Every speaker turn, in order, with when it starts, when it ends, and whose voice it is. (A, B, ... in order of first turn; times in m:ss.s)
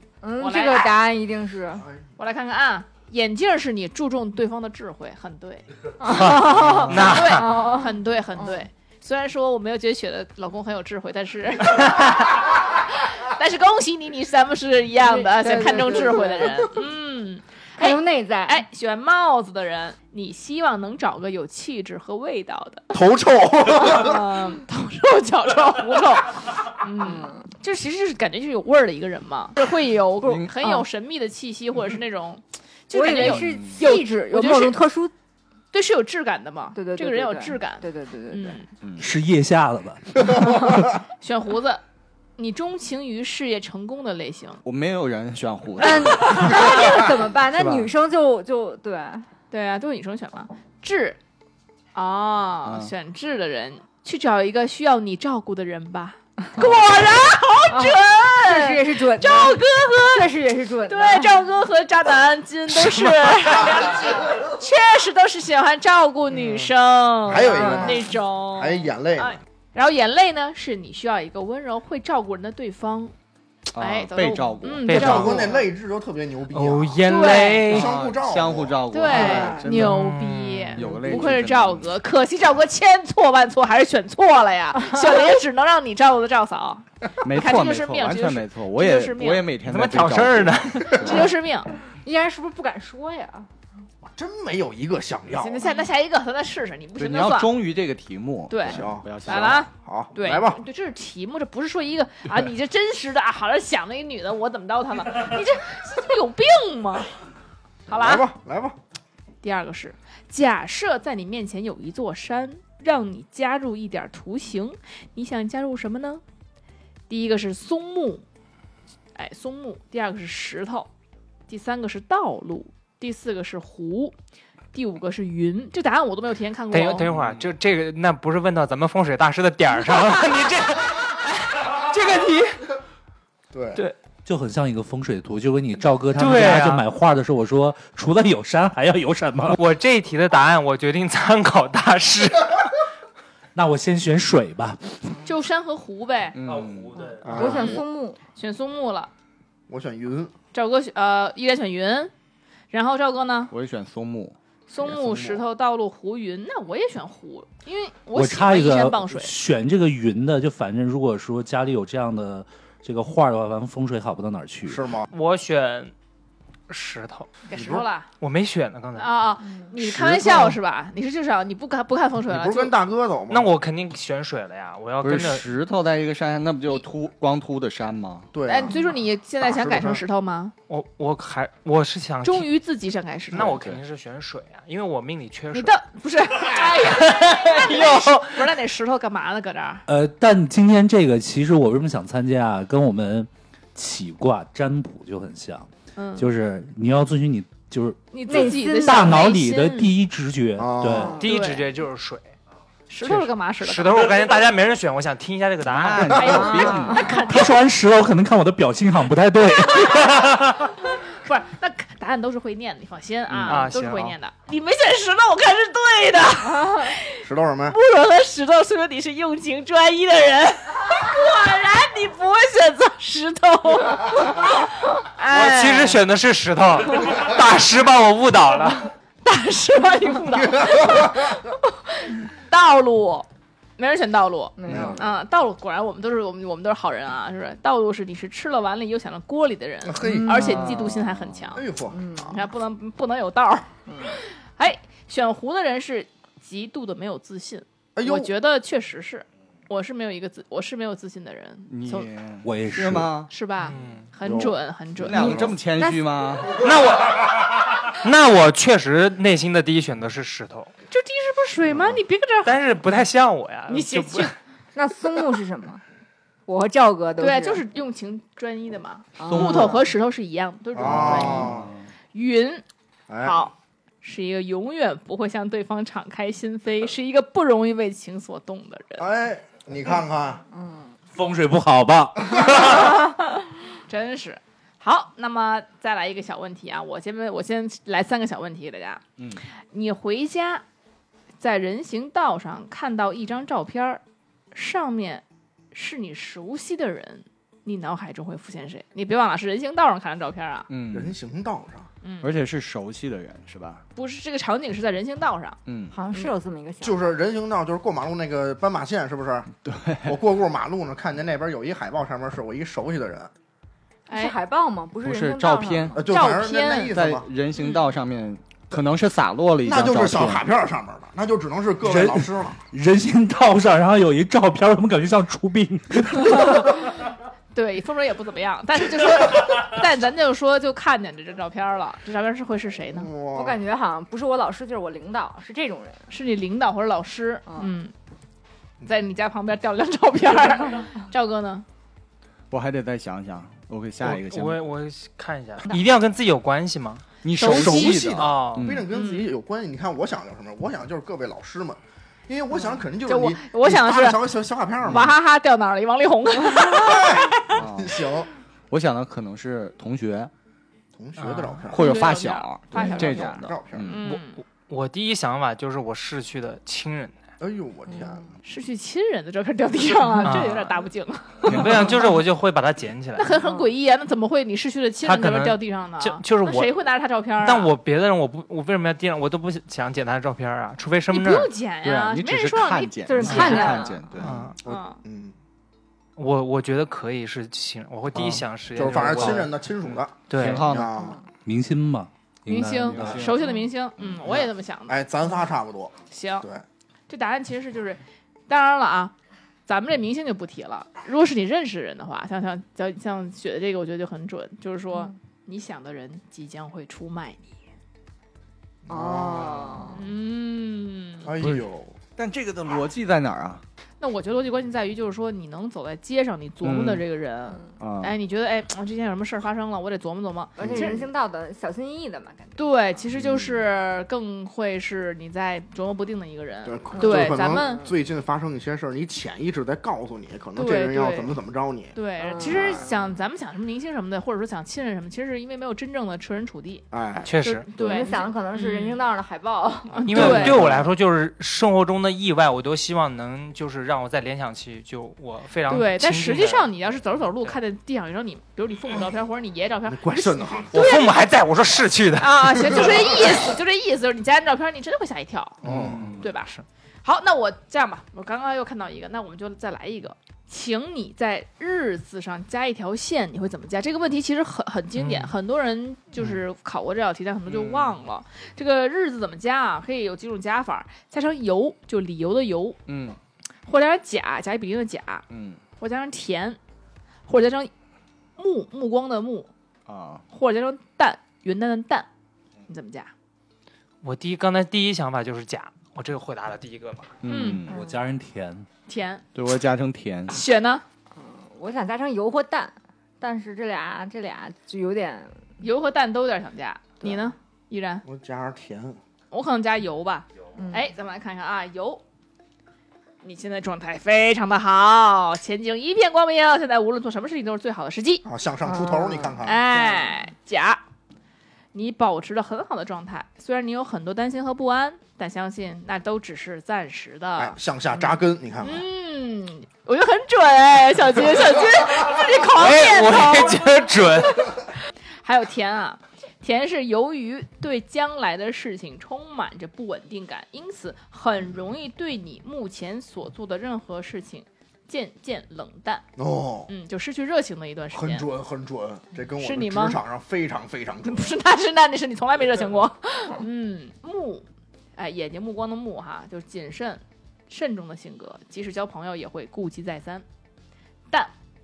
0:00.2-0:01.8 A
0:00.4-0:01.0 B
0:02.2-0:22.9 B
0:06.0-0:08.6 A
0:06.1-0:07.5 C
0:15.0-0:16.7 A
0:17.8-0:18.6 A
0:22.9-0:24.2 D
0:23.7-0:34.8 B
0:27.0-0:27.4 A
0:30.2-0:30.5 E
0:30.6-0:30.8 A
0:32.9-0:35.1 A
0:33.2-0:33.8 E
0:35.7-0:38.7 B
0:36.7-0:38.6 A
0:38.8-0:39.1 E
0:39.0-0:40.9 F
0:40.2-0:40.8 D
0:41.2-0:41.8 B
0:42.4-0:44.6 B
0:44.6-0:47.9 E
0:45.8-0:49.3 A
0:45.8-0:46.8 B
0:49.5-0:51.2 B
0:51.9-1:00.3 B
0:52.6-0:52.9 E
0:56.5-0:56.8 A
0:57.7-1:01.4 A
1:00.9-1:13.1 B
1:02.8-1:03.7 C
1:07.2-1:09.4 D
1:07.4-1:08.0 A
1:13.7-1:15.5 E
1:13.8-1:15.6 B
1:14.8-1:15.4 C
1:14.9-1:17.1 D
1:16.5-1:17.9 C
1:17.1-1:17.7 A
1:17.1-1:17.4 B
1:17.6-1:18.8 D
1:17.7-1:20.1 E
1:18.9-1:29.5 B
1:19.1-1:19.6 A
1:19.8-1:20.8 C
1:20.8-1:21.9 E
1:27.2-1:31.3 E
1:29.6-1:31.0 C
1:30.7-1:31.7 B
1:32.0-1:33.5 A
1:34.0-1:35.7 D
1:35.4-1:37.5 B
1:37.0-1:39.6 E
1:38.5-1:47.1 B
1:38.6-1:40.6 D
1:47.9-1:48.2 B
1:47.9-1:48.8 D
1:49.4-1:56.2 B
1:57.1-1:58.2 B
1:59.1-2:00.9 B
2:01.5-2:04.1 B
2:04.7-2:07.1 B
2:06.7-2:12.6 C
2:07.1-2:07.5 E
2:13.5-2:13.8 D
2:14.2-2:19.6 F
2:16.2-2:16.9 C
2:19.5-2:22.8 C
2:23.5-2:25.0 F
2:25.2-2:26.4 B
2:26.3-2:27.0 E
2:27.0-2:28.2 A
2:27.2-2:27.8 D
2:27.4-2:27.8 B
2:28.4-2:29.1 B
2:29.7-2:30.3 D
2:30.5-2:32.1 B
2:32.7-2:33.5 B
2:33.5-2:34.4 E
2:34.7-2:39.4 B
2:34.8-2:35.4 D
2:38.1-2:44.8 F
2:44.7-2:45.1 D
2:45.1-2:45.9 C
2:46.7-2:47.3 C
2:47.5-2:48.1 B
2:47.5-2:47.8 D
2:48.2-2:49.1 C
2:49.0-2:52.7 B
2:49.8-2:50.6 D
2:52.3-2:53.5 D
2:53.3-2:55.4 C
2:55.0-2:58.3 E
2:58.3-2:58.8 D
2:58.4-3:00.5 B
2:59.4-3:00.0 D
3:00.7-3:02.5 C
3:02.2-3:03.5 B
3:03.3-3:05.7 C
3:03.3-3:03.8 E
3:05.5-3:09.8 B
3:06.4-3:08.4 C
3:09.9-3:21.2 F
3:16.0-3:16.3 B
3:18.1-3:19.9 B
3:18.3-3:19.3 A
3:20.6-3:21.2 D
3:21.2-3:22.3 C
3:21.2-3:21.6 B
3:22.9-3:24.0 B
3:23.1-3:26.3 C
3:25.6-3:27.1 E
3:26.1-3:27.6 B
3:26.4-3:27.2 A
3:27.2-3:30.4 F
3:29.6-3:30.3 B
3:30.8-3:46.0 B
3:33.3-3:33.7 E
3:33.4-3:34.1 C
3:37.2-3:37.8 D
3:45.3-3:48.9 C
3:49.2-3:53.3 B
3:50.3-3:51.4 D
3:53.8-4:01.6 B
3:54.6-3:55.1 A
3:54.7-3:55.0 D
3:54.7-3:55.0 E
3:59.8-4:00.9 D
4:00.0-4:01.1 A
4:01.1-4:01.6 E
4:01.5-4:02.3 D
4:01.9-4:02.4 A
4:02.3-4:12.1 B
4:03.9-4:04.2 A
4:08.0-4:08.3 D
4:11.7-4:13.3 E
4:12.4-4:13.1 F
4:13.3-4:15.3 B
4:13.6-4:14.1 C
4:14.2-4:15.6 D
4:15.0-4:16.7 E
4:15.1-4:16.1 A
4:16.6-4:20.7 C
4:20.9-4:22.5 B
4:22.4-4:24.3 C
4:23.7-4:24.3 B
4:24.7-4:25.8 A
4:26.4-4:27.6 A
4:27.2-4:31.5 B
4:29.2-4:29.7 A
4:29.3-4:29.8 E
4:30.7-4:31.7 D
4:30.8-4:31.7 E
4:32.1-4:32.6 B
4:33.1-4:33.4 D
4:33.2-4:39.1 B
4:39.0-4:40.4 D
4:40.5-4:40.9 A
4:41.1-4:43.0 F
4:42.5-4:49.0 B
4:49.7-4:50.6 B
4:51.4-4:54.0 B
4:54.5-5:00.7 B
5:00.7-5:01.2 E
5:00.9-5:01.9 D
5:02.0-5:02.3 B
5:02.2-5:03.8 E
5:03.9-5:05.6 B
5:05.6-5:05.9 E
5:05.9-5:07.0 A
5:06.8-5:09.5 D
5:09.6-5:10.2 E
5:10.0-5:13.3 D
5:14.1-5:14.4 B
5:14.1-5:16.0 A
5:15.0-5:16.0 E
5:15.9-5:17.3 D
5:16.1-5:16.9 B
5:16.9-5:20.4 E
5:19.6-5:22.6 D
5:21.8-5:26.9 F
5:26.4-5:26.8 B
5:27.5-5:33.1 B
5:32.9-5:33.6 D
5:33.3-5:36.1 A
5:36.1-5:37.9 B
5:38.8-5:41.6 B
5:42.5-5:44.6 E
5:44.0-5:47.0 C
5:47.2-5:48.9 E
5:47.4-5:48.0 B
5:47.4-5:55.1 D
5:48.1-5:48.7 C
5:48.9-5:49.2 B
5:53.0-5:54.2 B
5:54.8-5:57.5 B
5:54.8-5:55.1 E
5:56.6-5:58.3 D
5:57.5-5:58.0 E
5:58.7-6:00.3 E
6:00.9-6:02.0 D
6:01.2-6:01.6 C
6:01.7-6:04.0 E
6:01.7-6:04.4 B
6:02.8-6:04.0 D
6:04.0-6:07.2 C
6:07.4-6:08.3 D
6:07.9-6:08.2 A
6:08.4-6:12.0 B
6:10.2-6:10.8 C
6:11.4-6:13.3 C
6:11.4-6:11.9 E
6:13.2-6:17.7 B
6:13.4-6:13.7 A
6:15.0-6:16.8 C
6:17.4-6:21.5 C
6:21.1-6:23.8 B
6:21.8-6:24.5 E
6:23.0-6:24.0 A
6:24.2-6:24.5 C
6:24.2-6:25.3 D
6:24.6-6:25.0 B
6:26.2-6:29.5 C
6:28.7-6:31.2 D
6:29.0-6:29.4 E
6:30.3-6:30.7 C
6:30.4-6:31.0 E
6:30.9-6:31.2 A
6:31.4-6:33.3 F
6:32.5-6:35.0 B
6:32.8-6:33.5 E
6:34.0-6:34.3 E
6:34.2-6:36.6 D
6:36.1-6:36.5 B
6:37.1-6:39.1 B
6:39.7-6:47.5 B
6:48.8-6:50.0 D
6:48.9-6:50.0 A
6:49.9-6:51.3 B
6:51.2-6:52.0 D
6:52.2-6:53.6 E
6:54.0-7:01.0 B
6:56.6-6:57.0 E
6:57.8-6:58.1 E
7:00.6-7:03.0 A
7:00.6-7:01.0 D
7:02.6-7:07.9 B
7:06.6-7:12.8 D
7:06.9-7:07.9 A
7:10.6-7:11.4 B
7:11.9-7:16.8 B
7:12.2-7:13.0 A
7:16.9-7:18.1 D
7:17.2-7:17.6 C
7:17.4-7:19.0 B
7:17.8-7:20.4 A
7:19.9-7:20.6 B
7:20.1-7:26.7 C
7:20.2-7:20.8 D
7:20.3-7:20.8 E
7:25.7-7:31.1 B
7:29.8-7:30.8 D
7:30.7-7:32.9 C
7:32.2-7:35.6 B
7:35.6-7:36.1 D
7:35.6-7:36.2 E
7:35.6-7:36.6 C
7:36.2-7:36.5 B
7:37.0-7:52.8 B
7:45.0-7:45.3 C
7:47.5-7:48.0 E
7:52.9-7:53.2 E
7:53.6-7:55.2 B
7:55.3-7:55.6 E
7:55.8-7:56.6 B
7:57.3-7:57.7 B
7:58.4-7:59.5 B
7:59.9-8:00.2 E
8:00.3-8:02.1 B
8:02.7-8:03.1 B
8:04.0-8:07.1 C
8:07.2-8:07.8 E
8:07.2-8:07.6 B
8:07.7-8:07.9 A
8:07.7-8:08.6 F
8:08.9-8:09.2 B
8:09.3-8:10.3 E
8:10.3-8:10.8 B
8:11.1-8:15.4 A
8:15.6-8:18.0 B
8:18.0-8:19.0 D
8:19.3-8:22.0 B
8:20.6-8:20.9 A
8:23.2-8:28.2 B
8:28.2-8:29.6 D
8:28.6-8:30.1 A
8:29.4-8:30.8 B
8:31.7-8:37.6 B
8:37.4-8:38.8 D
8:38.6-8:43.9 B
8:42.4-8:44.5 C
8:45.2-8:56.0 B
8:56.2-8:56.7 D
8:56.7-8:58.2 B
8:57.9-9:01.3 D
8:59.4-9:00.0 B
9:01.0-9:10.2 B